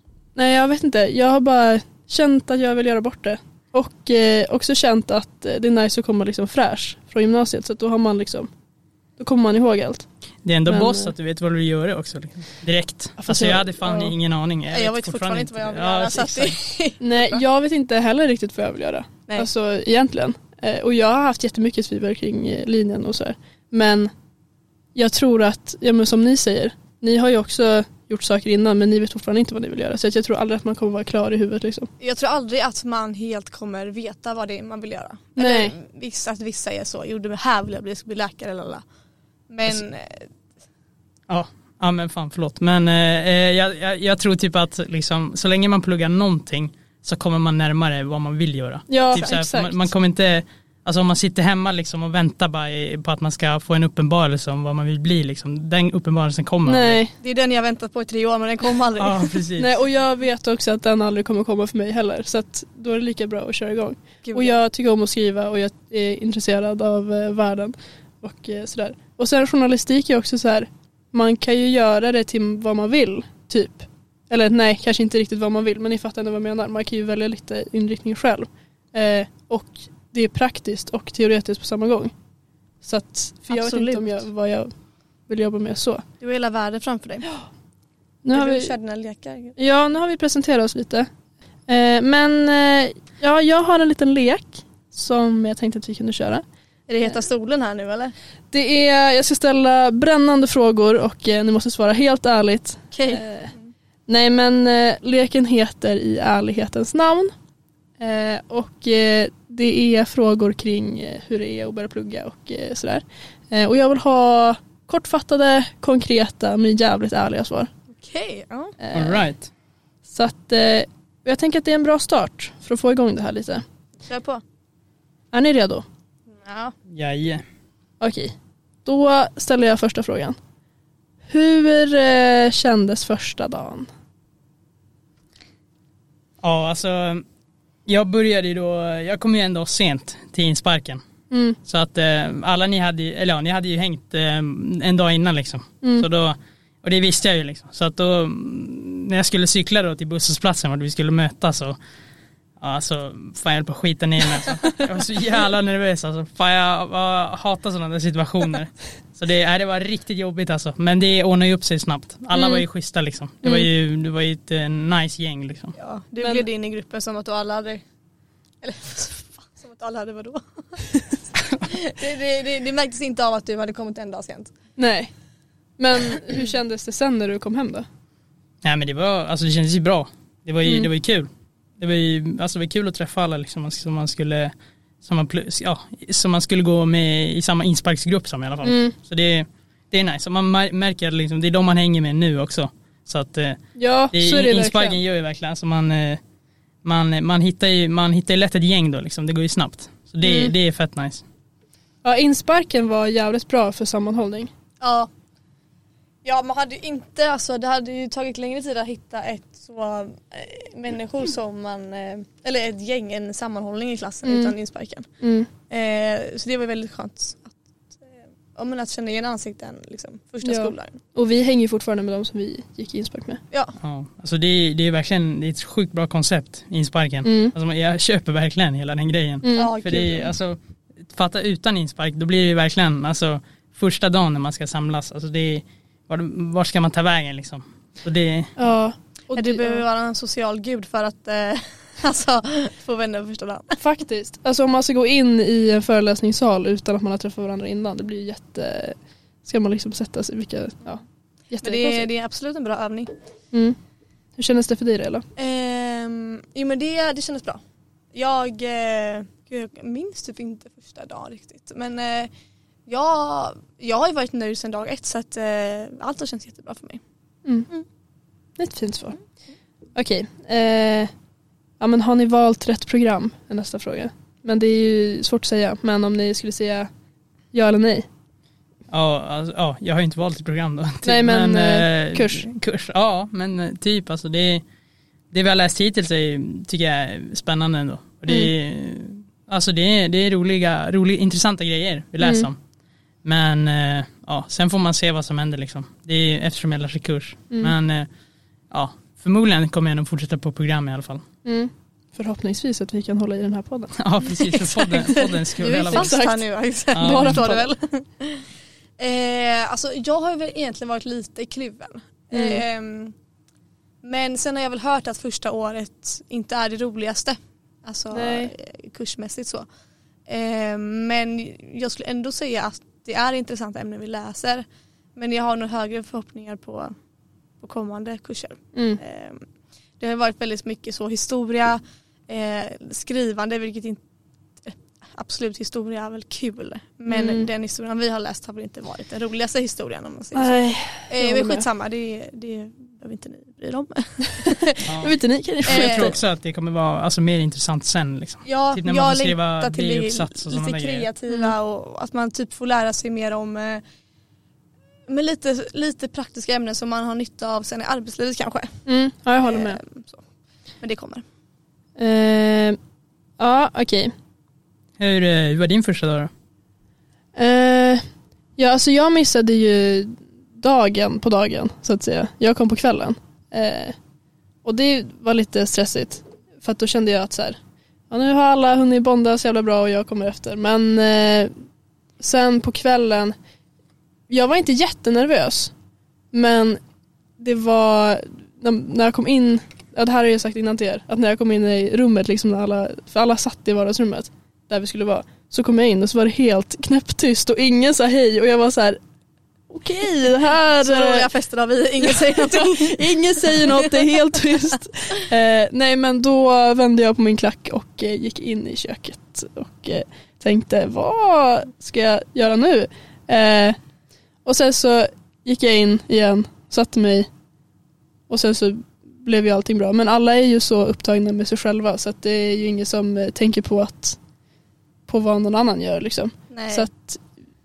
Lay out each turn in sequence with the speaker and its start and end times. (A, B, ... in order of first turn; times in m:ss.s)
0:00.4-0:08.5 A
0:09.2-0:10.1 A
0:10.4-0:16.6 B
0:10.7-0:11.1 A
0:13.2-0:14.1 A
0:14.7-0:17.0 C
0:17.0-0:24.1 A
0:25.0-0:31.9 A
0:32.0-0:38.8 C
0:35.4-0:35.7 A
0:39.5-0:40.3 C
0:41.3-0:57.0 B
0:48.9-0:49.9 A
0:56.6-0:57.1 A
0:57.2-0:59.4 C
0:59.0-0:59.8 B
0:59.6-1:22.1 A
1:04.2-1:04.6 C
1:22.8-1:24.7 A
1:23.5-1:24.2 C
1:25.3-1:26.0 A
1:26.2-1:27.3 C
1:28.2-1:28.7 A
1:28.3-1:29.6 C
1:29.6-1:31.1 A
1:31.7-1:36.4 A
1:36.9-1:38.1 C
1:38.5-1:43.5 A
1:42.9-1:43.3 C
1:44.1-1:47.3 A
1:48.0-1:57.7 A
1:57.9-1:58.8 C
1:58.8-1:59.3 A
1:58.9-1:59.5 B
2:00.1-2:03.6 A
2:04.1-2:04.4 C
2:05.3-2:05.8 A
2:06.3-2:06.8 C
2:06.9-2:07.4 B
2:08.0-2:08.3 A
2:08.8-2:10.4 A
2:11.3-2:13.9 A
2:16.4-2:17.2 B
2:17.9-2:21.0 B
2:21.3-2:21.6 A
2:21.6-2:31.8 B
2:32.6-2:45.8 B
2:42.4-2:42.6 A
2:45.8-2:47.8 C
2:48.6-2:50.8 C
2:51.6-2:54.5 C
2:54.8-2:55.1 A
2:55.8-2:57.9 A
2:58.6-3:13.6 B
3:00.6-3:00.9 A
3:08.6-3:08.9 A
3:13.8-3:15.0 A
3:14.1-3:16.2 B
3:16.8-3:21.2 B
3:20.2-3:20.5 A
3:22.0-3:24.5 A
3:24.8-3:25.1 C
3:26.2-3:35.1 C
3:34.2-3:34.5 A
3:35.2-3:35.5 A
3:35.7-3:37.6 C
3:38.6-3:41.0 C
3:40.4-3:43.4 A
3:43.8-3:58.5 B
3:47.2-3:47.5 A
3:49.4-3:49.8 A
3:49.6-3:50.3 C
3:58.6-3:59.8 A
3:59.4-4:03.8 C
4:03.8-4:12.1 A
4:11.6-4:13.1 C
4:14.4-4:15.2 A
4:15.4-4:17.6 C
4:18.1-4:22.3 C
4:22.9-4:27.0 C
4:28.6-4:29.2 A
4:30.0-4:31.1 A
4:31.8-4:36.9 A
4:37.5-4:38.1 A
4:38.9-4:44.6 B
4:41.0-4:42.5 A
4:45.3-4:52.6 B
4:52.2-4:52.5 A
4:53.2-4:58.1 B
4:58.7-5:01.2 B
5:01.4-5:04.5 A
5:04.0-5:06.2 B
5:04.8-5:08.4 C
5:05.8-5:06.4 A
5:06.9-5:07.4 B
5:07.0-5:07.7 A
5:09.0-5:13.1 C
5:12.3-5:12.6 A
5:14.0-5:19.6 C
5:18.1-5:18.5 A
5:20.3-5:24.6 C
5:25.2-5:26.9 C
5:27.6-5:29.4 C
5:28.8-5:29.0 A
5:30.0-5:34.0 C
5:34.6-5:40.6 C
5:37.1-5:37.5 A
5:40.4-5:41.6 A
5:41.1-5:44.9 C
5:44.4-5:46.2 A
5:44.9-5:45.1 B
5:45.7-5:51.1 B
5:45.7-5:46.1 C
5:48.4-5:53.8 C
5:51.3-5:51.5 A
5:55.1-5:58.8 C
5:58.9-5:59.8 A
5:59.4-6:00.2 C
6:00.8-6:01.2 C
6:02.0-6:02.8 A
6:03.4-6:04.1 A
6:05.0-6:06.3 B
6:07.4-6:08.0 A
6:08.6-6:14.0 A
6:14.6-6:17.6 A
6:18.1-6:21.5 A
6:22.2-6:23.4 A
6:24.3-6:25.7 A
6:26.3-6:26.8 A
6:27.4-6:39.0 A
6:39.7-6:41.3 A
6:40.8-6:44.4 C
6:42.0-6:53.8 A
6:54.4-6:57.3 A
6:58.3-7:04.2 A
7:05.1-7:07.2 A
7:06.5-7:06.9 C